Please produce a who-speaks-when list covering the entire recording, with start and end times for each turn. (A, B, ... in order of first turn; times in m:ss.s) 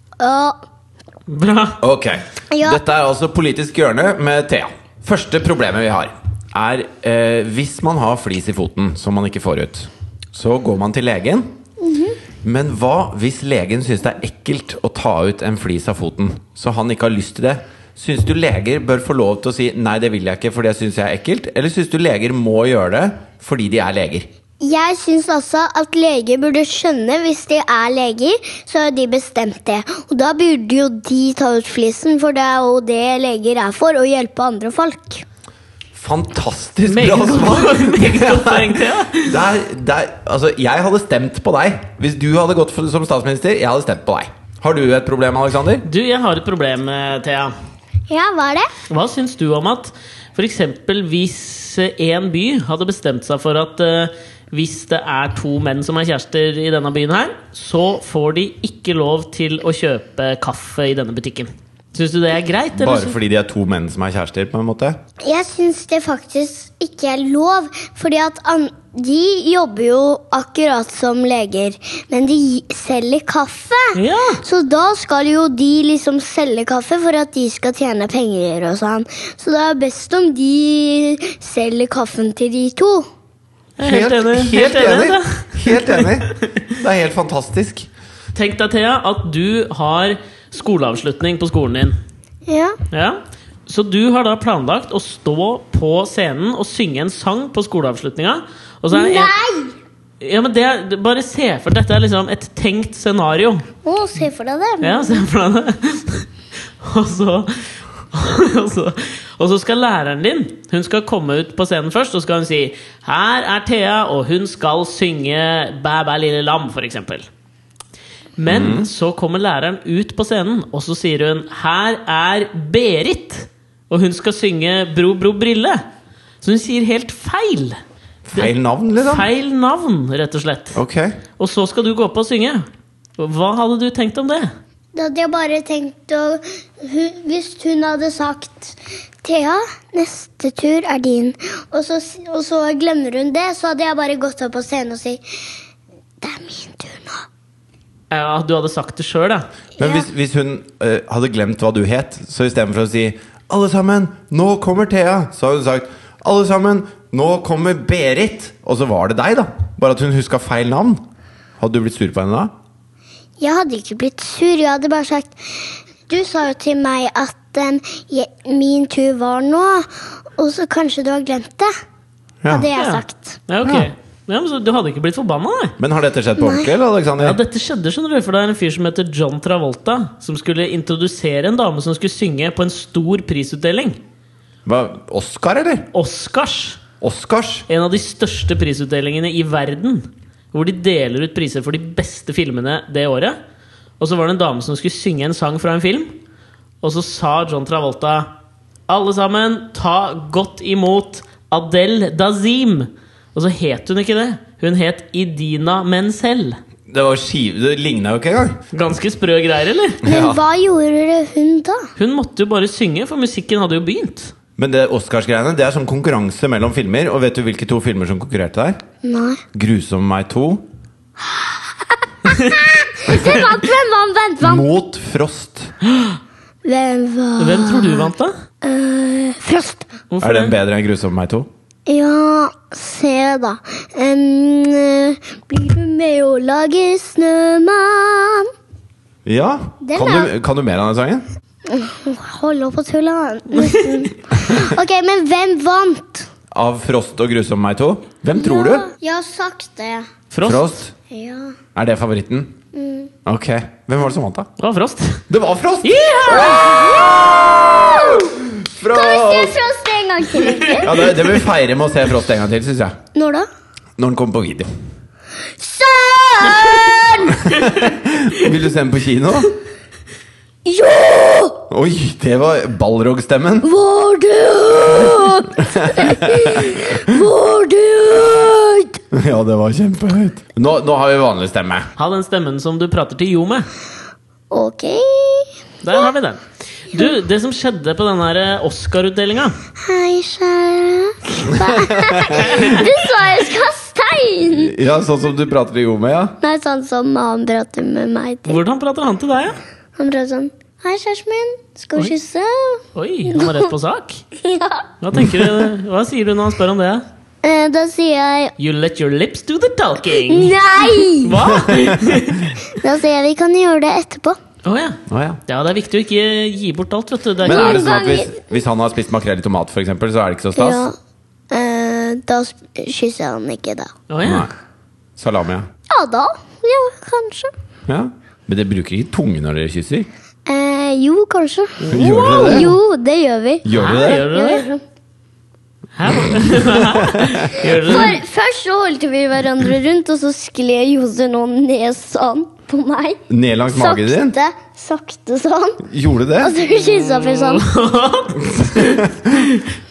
0:00.2-0:00.6 A
0:01.3-0:01.8 B
0:01.8-0:11.6 C
0:02.5-0:02.8 A
0:11.8-0:12.2 A
0:12.4-0:24.3 C
0:24.6-0:35.2 A
0:36.0-0:45.8 C
0:36.9-0:39.4 B
0:45.8-0:47.5 B
0:48.1-0:48.7 A
0:48.9-1:03.2 B
1:02.8-1:05.0 C
1:05.2-1:23.1 A
1:14.0-1:14.4 B
1:23.8-1:26.6 B
1:23.8-1:27.9 C
1:28.4-1:32.0 B
1:32.5-1:32.8 A
1:32.9-1:39.3 B
1:38.9-1:39.7 A
1:40.2-1:43.7 B
1:43.8-1:45.2 A
1:44.8-1:46.3 B
1:46.8-1:57.3 B
1:58.4-2:05.9 B
1:58.5-1:58.9 C
2:06.4-2:07.8 B
2:08.3-2:09.3 C
2:08.3-2:10.8 B
2:10.8-2:11.2 C
2:11.4-2:14.5 B
2:15.0-2:25.2 A
2:26.2-2:27.2 A
2:28.1-2:29.5 B
2:29.8-2:41.0 C
2:29.8-2:30.0 A
2:41.6-2:42.5 C
2:43.4-2:51.7 A
2:52.4-2:52.7 C
2:52.5-2:53.4 A
2:52.8-2:55.8 B
2:55.8-2:57.4 C
2:56.4-2:56.7 A
2:57.2-3:04.0 B
3:04.7-3:05.9 C
3:05.9-3:06.8 B
3:07.0-3:07.7 C
3:07.7-3:13.4 B
3:14.0-3:16.2 B
3:16.8-3:18.3 B
3:18.9-3:26.6 B
3:26.9-3:28.6 C
3:28.7-3:30.0 B
3:30.0-3:30.4 C
3:30.0-3:31.9 A
3:32.0-3:34.3 B
3:34.6-3:38.8 C
3:39.0-3:39.4 A
3:39.5-3:40.7 C
3:41.3-3:44.7 A
3:42.3-3:42.6 B
3:44.4-3:45.7 C
3:45.9-3:46.2 B
3:46.6-3:48.1 A
3:47.4-3:48.4 B
3:48.6-3:49.9 A
3:50.1-3:50.6 B
3:50.2-3:51.5 C
3:51.9-3:58.5 A
3:59.3-4:01.3 C
3:59.8-4:00.3 A
4:01.7-4:06.3 A
4:03.6-4:04.0 B
4:06.5-4:08.9 C
4:08.3-4:10.1 A
4:10.3-4:10.7 B
4:10.4-4:10.9 C
4:11.1-4:11.6 A
4:11.8-4:12.6 C
4:12.7-4:13.1 A
4:13.2-4:14.5 C
4:14.6-4:15.2 B
4:15.3-4:19.6 C
4:15.8-4:16.7 B
4:16.3-4:18.3 A
4:18.8-4:21.2 A
4:20.4-4:20.8 B
4:20.8-4:23.0 C
4:23.1-4:23.5 A
4:24.0-4:24.7 C
4:25.6-4:27.5 A
4:27.4-4:29.5 C
4:30.6-4:31.6 A
4:31.7-4:33.7 C
4:33.6-4:39.0 A
4:35.6-4:37.0 C
4:39.1-4:41.9 C
4:42.0-4:43.7 B
4:44.5-4:46.0 A
4:45.8-4:49.6 B
4:49.8-4:54.8 A
4:51.5-4:52.5 C
4:52.4-4:52.9 B
4:54.6-4:56.4 C
4:56.4-4:58.6 A
4:58.5-4:59.6 B
5:00.0-5:03.7 A
5:03.0-5:04.2 B
5:04.4-5:04.9 A
5:05.0-5:07.0 B
5:07.4-5:08.5 A
5:08.6-5:12.5 B
5:10.1-5:11.4 A
5:11.6-5:12.0 C
5:12.7-5:14.4 A
5:14.6-5:18.1 B
5:15.1-5:15.4 C
5:17.4-5:18.4 A
5:17.4-5:20.9 C
5:20.6-5:21.0 A
5:21.5-5:23.9 A
5:24.1-5:24.5 B
5:24.2-5:24.5 C
5:25.2-5:25.7 C
5:25.9-5:27.5 A
5:27.9-5:30.1 C
5:30.5-5:34.8 A
5:31.8-5:32.7 B
5:31.9-5:32.7 C
5:33.6-5:34.3 C
5:33.7-5:34.6 B
5:36.0-5:38.2 B
5:36.5-5:37.7 C
5:37.9-5:43.2 A
5:43.3-5:44.4 C
5:43.7-5:45.9 A
5:45.8-5:46.5 C
5:46.4-5:47.7 A
5:46.9-5:49.6 B
5:48.4-5:49.5 C